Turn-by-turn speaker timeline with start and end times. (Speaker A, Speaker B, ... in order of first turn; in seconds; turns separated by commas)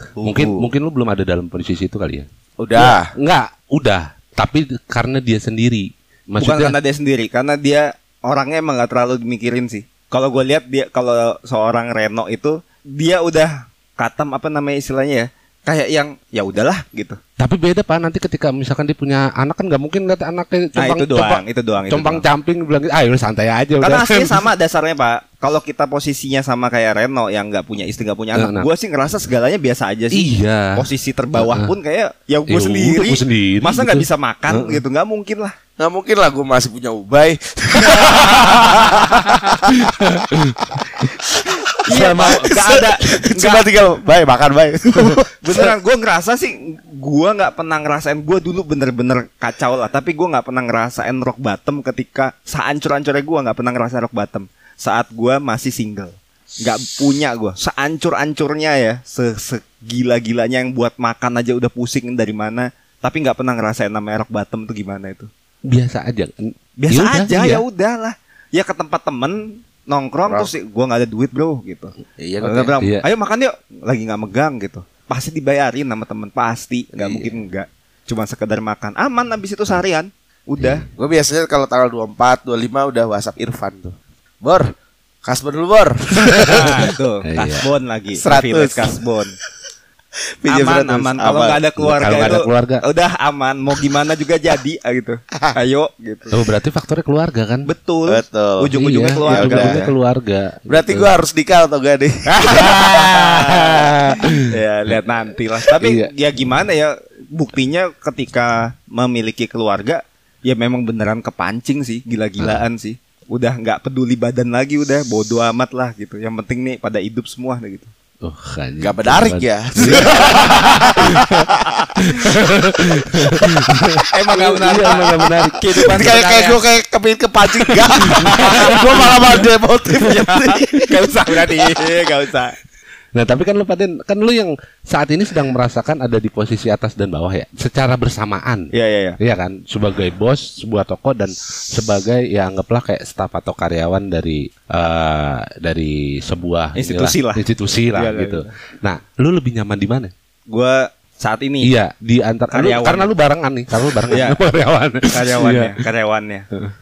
Speaker A: 0.2-0.7, Speaker B: 0.2-6.8, Speaker A: 2.6-3.1, Speaker C: 6.4-17.2, Speaker B: 17.4-24.4, Speaker C: 20.8-22.2, Speaker C: 23.8-35.5, Speaker B: 28.3-28.7, Speaker B: 30.1-31.7, Speaker B: 32.5-34.8, Speaker A: 35.8-45.7, Speaker C: 37.9-38.4, Speaker B: 39.7-40.7, Speaker C: 41.7-43.6, Speaker B: 41.9-42.5, Speaker C: 45.0-65.3, Speaker B: 65.7-67.6, Speaker C: 66.8-80.8, Speaker A: 72.2-72.7, Speaker A: 77.0-77.3, Speaker A: 80.9-84.7, Speaker A: 85.2-86.8, Speaker C: 86.4-89.3, Speaker B: 86.5-87.7, Speaker A: 88.1-88.9, Speaker A: 90.4-91.6, Speaker C: 90.5-96.4, Speaker B: 91.8-92.8, Speaker B: 96.3-97.7, Speaker C: 97.7-99.9, Speaker A: 98.1-98.7, Speaker B: 98.7-101.1, Speaker A: 99.2-99.8, Speaker A: 100.7-103.2, Speaker C: 102.3-117.9, Speaker B: 102.8-103.1, Speaker B: 105.8-106.1, Speaker B: 118.2-121.5, Speaker A: 118.8-121.9, Speaker C: 119.9-120.3, Speaker B: 122.0-125.9, Speaker C: 124.1-126.6, Speaker A: 125.8-131.7, Speaker B: 128.0-129.4, Speaker C: 128.1-129.3, Speaker C: 130.0-132.6, Speaker B: 133.1-150.1, Speaker C: 138.7-139.2, Speaker C: 146.8-148.5, Speaker C: 150.5-151.7, Speaker B: 151.6-155.7, Speaker C: 152.5-153.1, Speaker C: 154.1-154.4, Speaker C: 155.1-156.5